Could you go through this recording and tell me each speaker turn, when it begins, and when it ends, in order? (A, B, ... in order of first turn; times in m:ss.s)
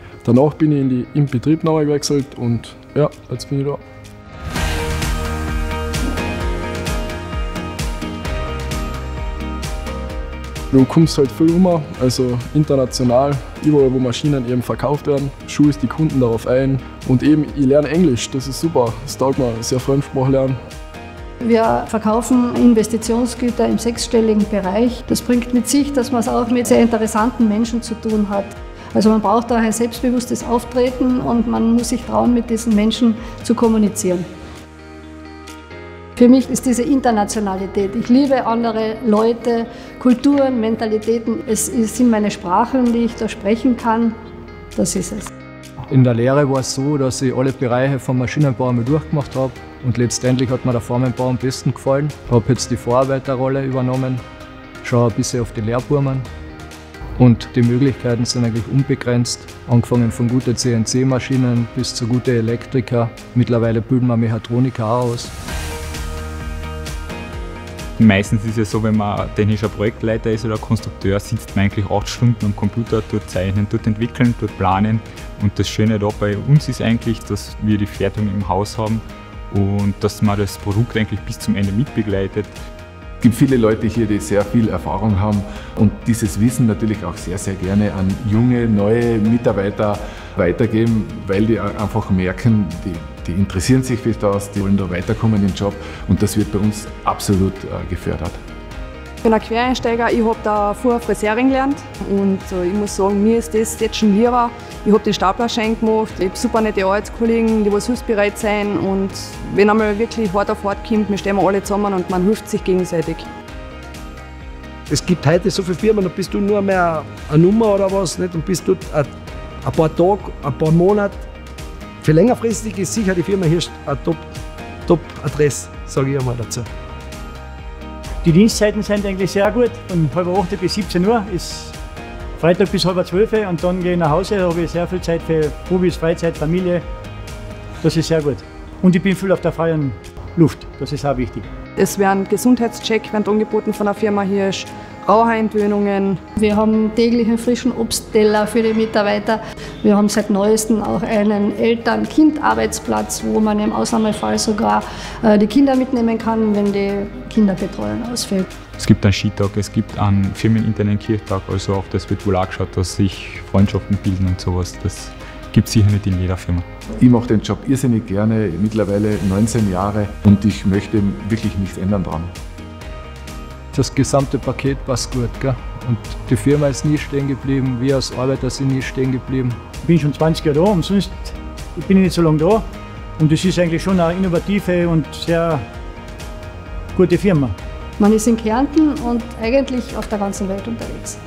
0:00.2-0:03.8 A
0:10.7-0:20.6 A
0:21.4-0:34.3 B
0:36.2-0:44.1 B
0:44.8-0:45.3 B
0:45.9-0:54.2 C
0:54.8-0:56.3 C
0:57.2-1:05.3 C
1:08.0-1:22.5 D
1:23.2-1:38.4 E
1:39.2-1:53.3 F
1:54.9-1:59.1 G
1:59.6-2:01.2 G
2:02.0-2:04.3 G
2:04.9-2:06.7 G
2:08.2-2:11.7 H
2:12.4-2:16.8 H
2:17.8-2:21.5 H
2:21.8-2:26.2 F
2:26.4-2:38.5 B
2:38.8-2:46.6 D
2:47.0-2:52.3 E
2:53.7-2:59.6 C
2:59.8-3:02.6 H
3:03.2-3:05.6 H
3:07.0-3:07.6 H
3:08.0-3:11.2 B